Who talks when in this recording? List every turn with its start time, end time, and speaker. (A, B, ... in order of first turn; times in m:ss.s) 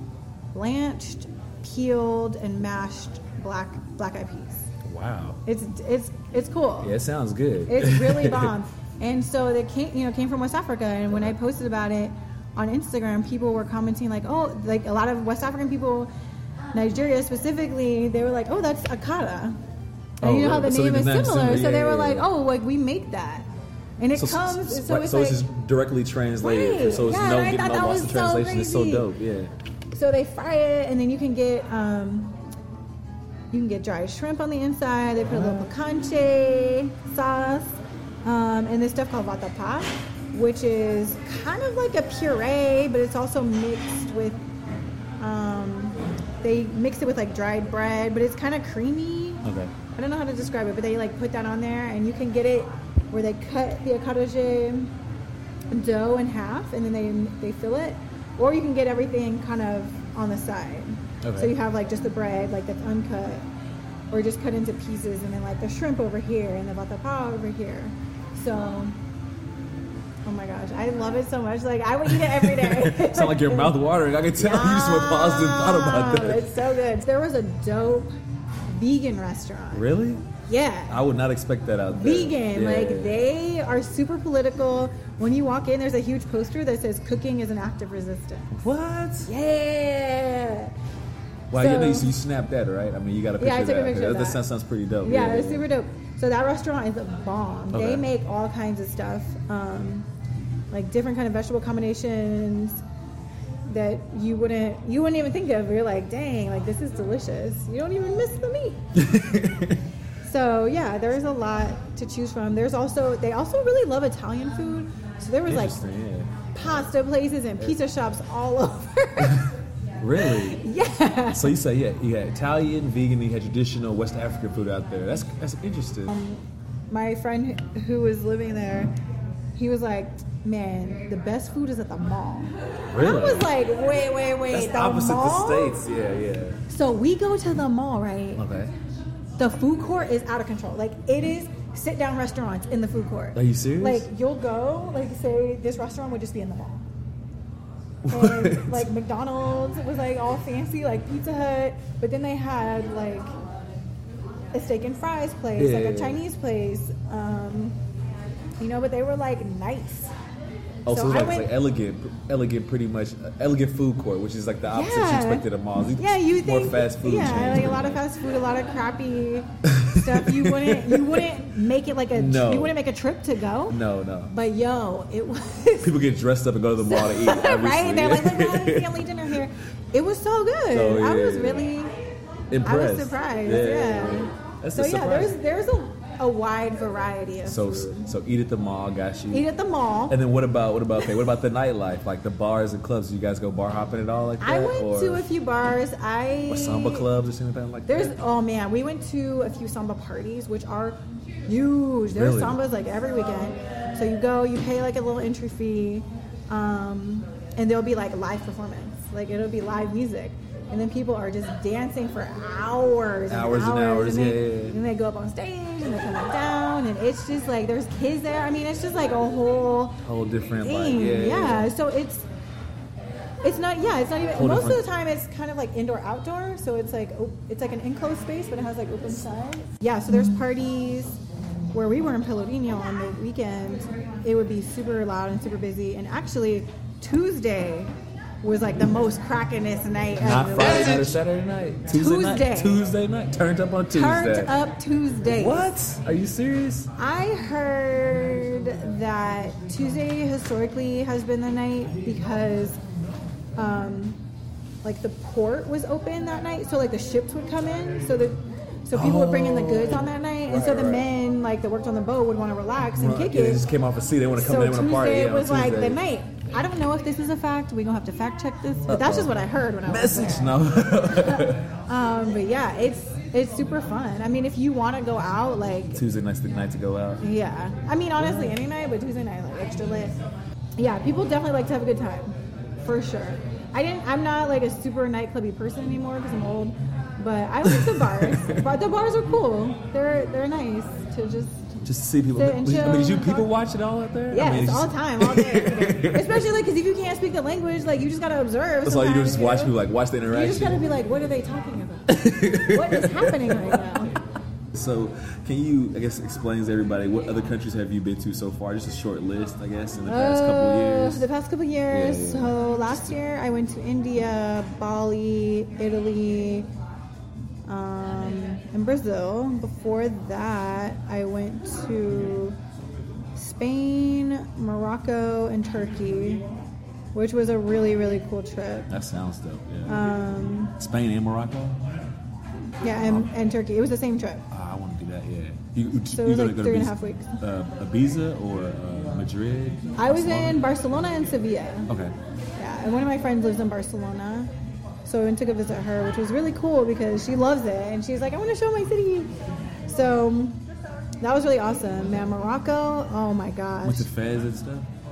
0:00.5-0:04.7 A
0:04.8-0:05.4 B
0:05.4-0:06.9 A
0:06.8-0:08.6 B
0:07.7-0:16.1 A
0:16.7-0:19.6 A
0:20.2-0:23.5 A
0:20.2-0:22.3 B
0:24.0-0:25.4 A
0:24.1-0:29.5 B
0:26.4-0:29.1 A
0:29.9-0:32.3 A
0:33.5-0:44.4 A
0:35.3-0:35.7 B
0:45.2-0:49.4 A
0:49.4-0:49.7 B
0:49.9-0:54.9 A
0:55.7-1:03.4 A
1:01.2-1:01.5 B
1:04.1-1:08.9 A
1:10.2-1:13.8 A
1:12.1-1:16.4 B
1:14.4-1:18.1 A
1:18.7-1:19.9 A
1:19.7-1:20.2 B
1:20.5-1:21.0 A
1:20.9-1:23.2 B
1:22.0-1:28.5 A
1:28.5-1:29.3 B
1:29.3-1:30.7 A
1:31.5-1:35.7 B
1:31.5-1:32.1 A
1:33.4-1:34.4 A
1:35.0-1:40.1 A
1:37.7-1:38.0 B
1:40.7-1:42.8 A
1:43.7-1:48.8 A
1:48.9-1:49.8 B
1:50.2-1:55.8 A
1:55.4-1:56.3 B
1:56.5-1:59.5 A
1:59.2-1:59.5 B
2:00.0-2:00.6 B
2:00.2-2:01.5 A
2:01.3-2:06.1 B
2:06.1-2:08.9 A
2:09.6-2:15.8 A
2:12.9-2:13.5 B
2:14.5-2:16.6 B
2:16.7-2:18.4 A
2:18.4-2:18.7 B
2:19.4-2:26.8 A
2:23.4-2:24.1 B
2:28.0-2:28.9 B
2:28.1-2:33.3 A
2:34.5-2:37.8 A
2:35.6-2:36.2 B
2:38.6-2:40.1 A
2:40.9-2:48.0 B
2:40.9-2:41.5 A
2:44.7-2:45.4 A
2:46.0-2:53.8 A
2:49.6-2:51.3 B
2:52.1-2:52.8 B
2:53.7-2:54.3 B
2:54.3-2:55.9 A
2:55.8-2:59.0 B
2:56.8-3:01.9 A
3:00.7-3:01.7 B
3:02.5-3:05.4 B
3:02.6-3:08.1 A
3:07.4-3:09.5 B
3:09.3-3:10.2 A
3:10.1-3:15.2 B
3:14.4-3:17.1 A
3:16.5-3:18.2 B
3:17.9-3:40.0 A
3:22.1-3:22.6 B
3:33.3-3:34.8 B
3:40.0-3:41.7 B
3:40.6-3:42.2 A
3:43.4-3:51.2 A
3:44.4-3:44.9 B
3:51.7-4:01.2 A
4:00.2-4:04.6 B
4:01.9-4:02.8 A
4:03.9-4:05.7 A
4:05.3-4:06.9 B
4:07.0-4:12.8 A
4:13.6-4:14.2 A
4:14.8-4:23.6 A
4:18.9-4:21.1 B
4:23.0-4:26.0 B
4:24.4-4:36.0 A
4:28.9-4:31.6 B
4:35.9-4:37.2 B
4:37.2-4:40.2 A
4:38.2-4:38.6 B
4:40.8-4:53.5 A
4:47.6-4:48.6 B
4:51.8-4:56.5 B
4:54.3-5:04.2 A
4:58.8-5:00.9 B
5:02.1-5:04.0 B
5:04.7-5:11.3 B
5:10.1-5:16.7 A
5:11.9-5:13.1 B
5:17.6-5:22.6 A
5:23.4-5:26.4 A
5:27.1-5:28.9 A
5:28.9-5:30.1 B
5:29.9-5:30.8 A
5:30.8-5:31.8 B
5:32.8-5:34.4 A
5:33.0-5:33.3 B
5:34.5-5:40.6 B
5:36.1-5:37.4 A
5:40.0-5:41.9 A
5:41.9-5:42.1 B
5:42.6-5:44.5 A
5:45.0-5:49.3 A
5:49.9-5:50.6 A
5:51.2-5:54.1 A
5:53.8-5:54.9 B